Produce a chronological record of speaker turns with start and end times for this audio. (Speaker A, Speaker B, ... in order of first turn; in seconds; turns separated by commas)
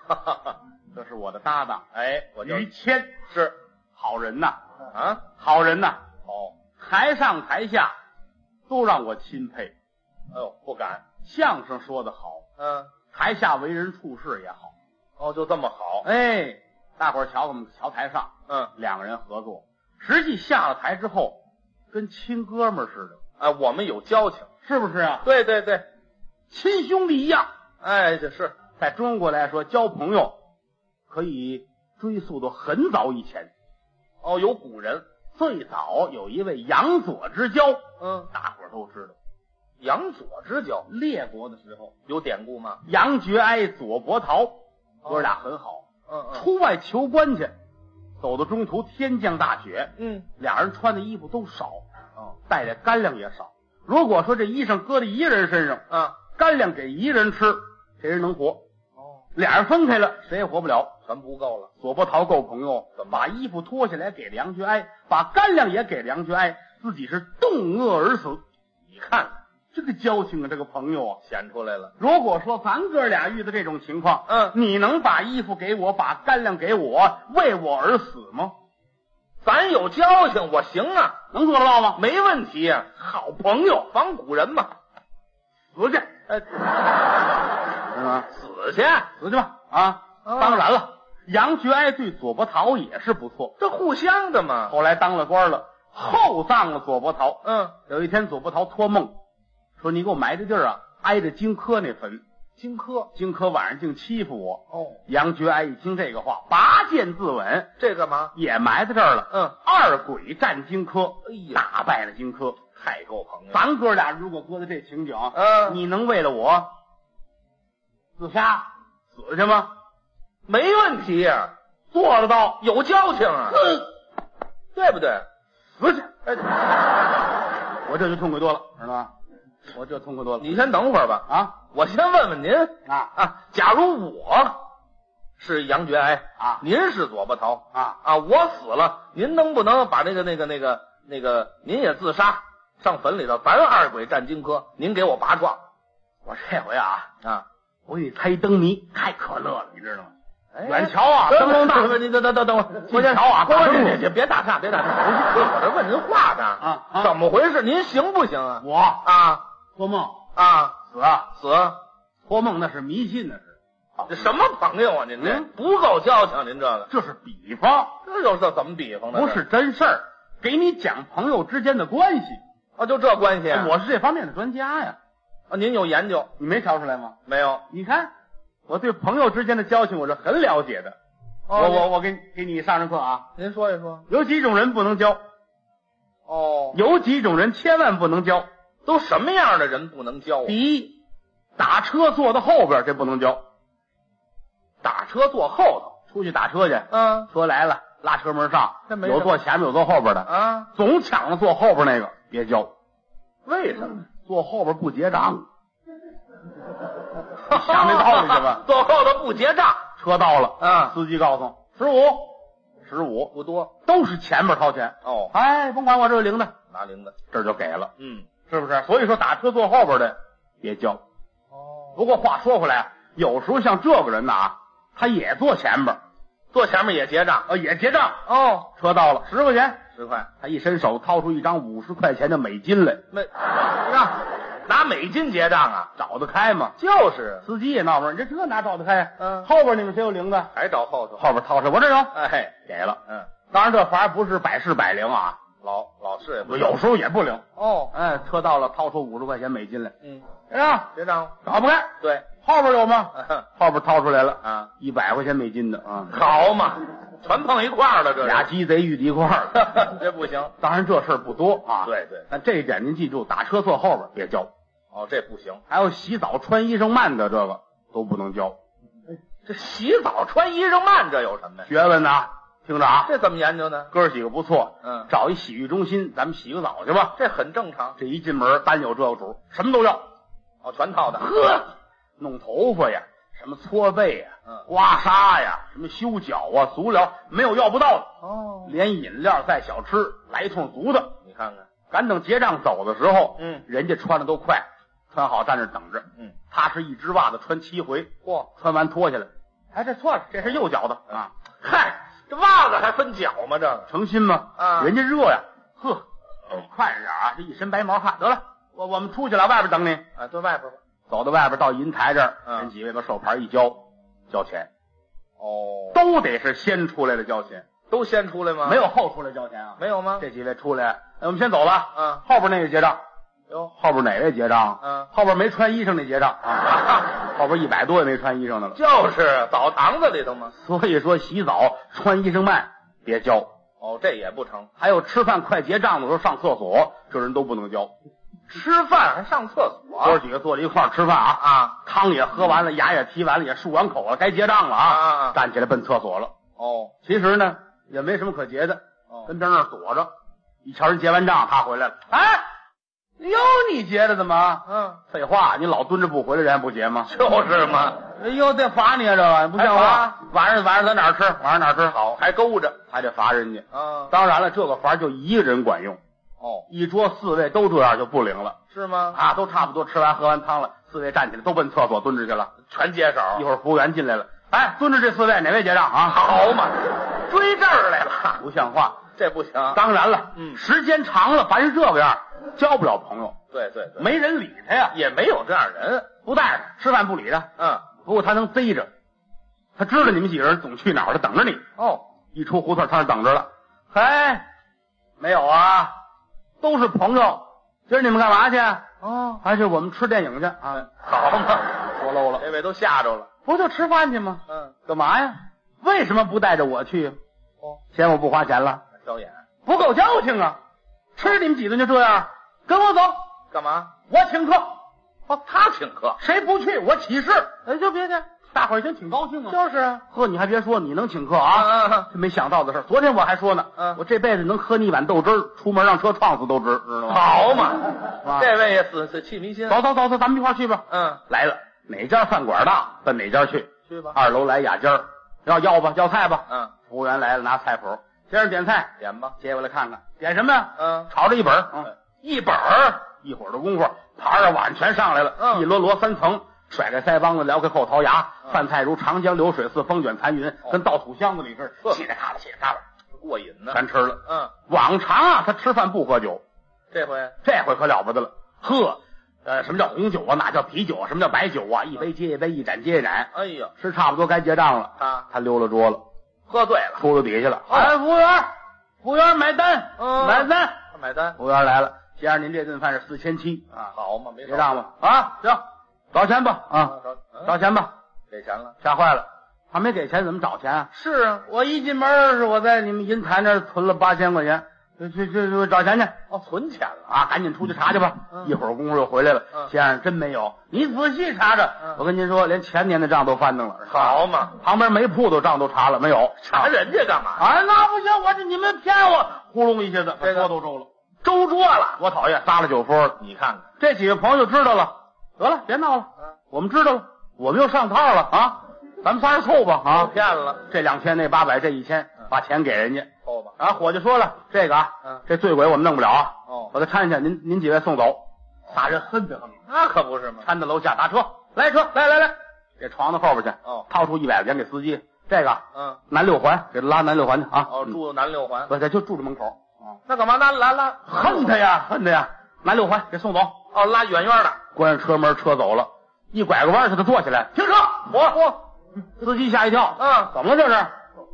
Speaker A: 0.9-1.9, Speaker B: 1.9-2.6, Speaker A: 2.4-3.2, Speaker B: 3.3-3.5, Speaker A: 3.9-4.6, Speaker B: 4.9-5.2, Speaker A: 5.4-6.0, Speaker B: 6.2-6.5, Speaker A: 6.8-7.9, Speaker A: 8.7-9.7, Speaker B: 10.3-11.0, Speaker A: 11.2-12.4, Speaker B: 12.6-12.9, Speaker A: 13.1-14.7, Speaker B: 15.2-16.0, Speaker A: 16.0-21.4, Speaker A: 21.9-23.2, Speaker B: 23.4-24.5, Speaker A: 24.6-25.3, Speaker B: 25.2-25.9, Speaker A: 26.5-27.5, Speaker B: 27.8-28.6, Speaker A: 28.7-30.3, Speaker A: 31.1-33.5, Speaker B: 34.2-35.0, Speaker A: 35.3-39.1, Speaker B: 38.0-38.3, Speaker B: 39.8-40.9, Speaker A: 40.9-41.9, Speaker B: 42.1-42.8, Speaker A: 42.8-47.5, Speaker B: 45.0-45.3, Speaker B: 46.1-46.4, Speaker A: 48.2-51.8, Speaker B: 50.0-50.2, Speaker A: 52.5-58.6, Speaker B: 55.9-56.2, Speaker A: 59.4-60.9, Speaker B: 61.1-61.7, Speaker A: 61.8-68.4, Speaker B: 63.0-63.3, Speaker B: 68.9-69.3, Speaker A: 69.7-71.2, Speaker B: 71.2-71.9, Speaker A: 72.0-78.5, Speaker B: 74.3-74.6, Speaker B: 79.4-81.2, Speaker A: 81.3-82.0, Speaker B: 82.0-84.7, Speaker A: 85.7-86.1, Speaker B: 86.3-86.7, Speaker A: 87.8-88.3, Speaker B: 88.3-89.1, Speaker A: 89.2-93.5, Speaker B: 90.2-90.7, Speaker B: 93.6-94.7, Speaker A: 94.7-99.1, Speaker B: 97.4-97.7, Speaker A: 99.8-102.2, Speaker B: 102.6-103.1, Speaker A: 103.1-107.7, Speaker B: 104.7-105.0, Speaker B: 107.8-108.3, Speaker A: 108.3-112.6, Speaker B: 111.2-111.6, Speaker B: 112.8-113.6, Speaker A: 113.5-116.7, Speaker B: 115.3-115.8, Speaker A: 118.2-119.7, Speaker B: 120.5-121.5, Speaker A: 121.9-122.6, Speaker B: 122.6-123.6, Speaker A: 123.5-123.9, Speaker B: 124.7-125.2, Speaker A: 125.8-126.2, Speaker A: 127.8-129.1, Speaker A: 129.7-130.5, Speaker B: 130.4-134.6, Speaker A: 131.3-131.5, Speaker A: 132.8-133.1, Speaker B: 135.4-145.6, Speaker A: 136.4-136.6, Speaker A: 146.2-147.1, Speaker A: 147.9-150.1, Speaker B: 150.5-159.4, Speaker A: 150.6-152.0, Speaker A: 152.9-154.0, Speaker A: 156.6-157.1, Speaker A: 158.6-159.1, Speaker A: 159.8-160.2, Speaker B: 160.3-160.8, Speaker A: 160.9-161.3, Speaker B: 161.3-161.8, Speaker A: 162.3-164.3, Speaker B: 164.1-166.9, Speaker A: 165.2-165.5, Speaker A: 166.9-168.0, Speaker B: 168.0-169.4, Speaker A: 169.1-172.4, Speaker B: 172.8-173.7, Speaker A: 173.5-174.9, Speaker B: 175.5-176.3, Speaker A: 176.4-177.2, Speaker B: 177.2-177.6, Speaker A: 177.7-178.1, Speaker A: 178.7-180.9, Speaker B: 181.5-181.9, Speaker A: 181.5-183.3, Speaker B: 183.4-184.1, Speaker A: 184.1-185.2, Speaker B: 186.3-186.8, Speaker A: 186.7-188.5, Speaker B: 188.8-190.6, Speaker A: 190.4-191.0, Speaker A: 191.6-193.4, Speaker B: 194.8-195.8, Speaker A: 195.8-202.7, Speaker B: 196.9-197.3, Speaker B: 198.9-199.4, Speaker B: 200.2-200.7, Speaker B: 203.4-204.0, Speaker A: 204.2-205.5, Speaker B: 207.4-209.9, Speaker A: 207.5-208.6, Speaker A: 209.9-213.3, Speaker B: 210.6-210.9, Speaker B: 213.3-213.7, Speaker A: 213.8-216.5, Speaker B: 215.0-215.3, Speaker B: 216.7-217.1, Speaker A: 217.3-217.9, Speaker B: 218.0-218.3, Speaker A: 218.5-221.0, Speaker B: 221.5-222.0, Speaker A: 221.9-226.0, Speaker B: 226.5-227.5, Speaker A: 227.5-229.8, Speaker B: 228.2-228.7, Speaker B: 229.9-230.3, Speaker A: 230.3-233.0, Speaker B: 233.1-235.9, Speaker A: 235.9-236.8, Speaker B: 236.8-237.4, Speaker A: 237.4-240.5, Speaker B: 239.2-239.5, Speaker B: 240.5-241.2, Speaker A: 241.2-243.0, Speaker B: 242.1-242.5, Speaker A: 243.5-245.4, Speaker B: 245.6-246.8, Speaker A: 246.4-249.9, Speaker B: 247.6-247.9, Speaker A: 250.5-250.8, Speaker B: 250.8-251.4, Speaker A: 251.4-256.1, Speaker B: 252.0-252.2, Speaker B: 254.4-254.7, Speaker B: 256.1-258.5, Speaker A: 258.2-259.8, Speaker B: 259.5-260.5, Speaker A: 260.6-264.5, Speaker B: 261.8-262.2, Speaker B: 264.9-265.6, Speaker A: 265.7-268.6, Speaker B: 269.4-271.7, Speaker A: 271.7-273.1, Speaker B: 273.0-273.9, Speaker A: 273.9-277.2, Speaker B: 274.8-275.1, Speaker B: 277.1-277.9, Speaker A: 278.0-280.0, Speaker B: 280.6-281.3, Speaker A: 281.2-288.1, Speaker B: 288.2-288.7, Speaker A: 288.6-291.1, Speaker B: 291.2-291.7, Speaker A: 291.9-299.3, Speaker B: 293.4-293.6, Speaker B: 299.7-300.4, Speaker A: 300.2-301.3, Speaker B: 301.6-303.9, Speaker A: 303.9-310.1, Speaker B: 304.6-304.9, Speaker B: 310.1-310.8, Speaker A: 311.1-314.7, Speaker B: 315.4-316.0, Speaker A: 315.9-317.6, Speaker B: 317.9-318.8, Speaker A: 318.6-323.0, Speaker B: 319.8-320.2, Speaker B: 321.9-322.2, Speaker A: 323.7-328.8, Speaker B: 324.8-325.1, Speaker B: 328.7-330.5, Speaker A: 330.5-333.5, Speaker B: 333.8-334.7, Speaker A: 334.8-337.9, Speaker B: 338.5-340.2, Speaker A: 340.0-346.3, Speaker B: 341.4-341.8, Speaker B: 344.8-345.4, Speaker B: 346.6-346.9, Speaker A: 347.0-350.1, Speaker A: 350.6-352.4, Speaker A: 353.2-357.1, Speaker B: 354.7-355.0, Speaker B: 357.1-358.0, Speaker A: 358.0-362.0, Speaker B: 359.6-360.1, Speaker B: 361.9-362.8, Speaker A: 362.9-366.0, Speaker B: 363.7-364.1, Speaker B: 366.4-366.7, Speaker A: 366.7-368.6, Speaker B: 368.7-369.2, Speaker A: 369.1-372.5, Speaker B: 372.7-373.4, Speaker A: 373.3-376.2, Speaker B: 376.0-378.4, Speaker A: 378.4-379.0, Speaker B: 379.1-379.8, Speaker A: 379.7-383.4, Speaker B: 380.3-380.6, Speaker B: 383.5-384.1, Speaker A: 384.0-384.9, Speaker B: 384.9-386.1, Speaker A: 386.2-387.5, Speaker B: 387.6-387.9, Speaker A: 388.0-388.9, Speaker A: 389.8-391.6, Speaker B: 391.8-392.0, Speaker A: 392.3-394.4, Speaker A: 395.2-395.9, Speaker A: 396.6-398.8, Speaker B: 399.0-399.4, Speaker A: 399.4-400.9, Speaker B: 400.8-401.8, Speaker A: 401.8-402.4, Speaker B: 402.4-403.3, Speaker A: 403.4-407.2, Speaker B: 404.5-404.7, Speaker A: 407.9-408.8, Speaker B: 409.0-409.4, Speaker A: 409.6-410.6, Speaker A: 411.1-413.2, Speaker B: 413.5-413.9, Speaker A: 414.1-414.8, Speaker B: 415.3-416.2, Speaker A: 416.2-417.7, Speaker B: 417.6-418.2, Speaker A: 418.4-427.4, Speaker B: 419.5-420.0, Speaker B: 421.5-422.1, Speaker B: 427.1-429.8, Speaker A: 428.2-428.5, Speaker A: 429.7-441.9, Speaker B: 430.9-431.2, Speaker B: 433.9-434.2, Speaker B: 439.0-439.3, Speaker B: 440.8-441.1, Speaker B: 441.9-443.0, Speaker A: 443.1-452.8, Speaker B: 445.4-445.6, Speaker B: 453.1-454.5, Speaker A: 453.7-456.4, Speaker B: 456.9-457.4, Speaker A: 457.4-466.0, Speaker B: 463.3-463.7, Speaker B: 465.0-465.3, Speaker B: 466.5-467.0, Speaker A: 467.0-468.5, Speaker B: 467.7-467.9, Speaker A: 469.0-470.8, Speaker B: 470.0-471.4, Speaker A: 471.4-473.9, Speaker B: 473.9-474.9, Speaker A: 474.4-477.9, Speaker B: 476.8-477.5, Speaker B: 478.3-478.7, Speaker A: 478.8-480.9, Speaker B: 480.9-481.4, Speaker A: 481.4-486.2, Speaker B: 486.3-487.1, Speaker A: 487.1-496.7, Speaker B: 493.9-494.5, Speaker B: 496.4-497.4, Speaker A: 497.4-500.9, Speaker B: 500.2-500.5, Speaker B: 501.2-502.0, Speaker A: 502.0-503.2, Speaker B: 503.2-503.7, Speaker A: 503.8-519.6, Speaker B: 509.9-510.6, Speaker B: 513.2-513.5, Speaker B: 516.5-516.7, Speaker B: 519.7-520.5, Speaker A: 520.4-527.9, Speaker B: 525.7-526.0, Speaker B: 527.7-528.7, Speaker A: 528.7-529.6, Speaker B: 530.0-531.5, Speaker A: 531.1-533.6, Speaker B: 533.7-534.6, Speaker A: 534.7-538.0, Speaker B: 537.9-538.6, Speaker A: 539.2-540.9, Speaker B: 540.0-540.3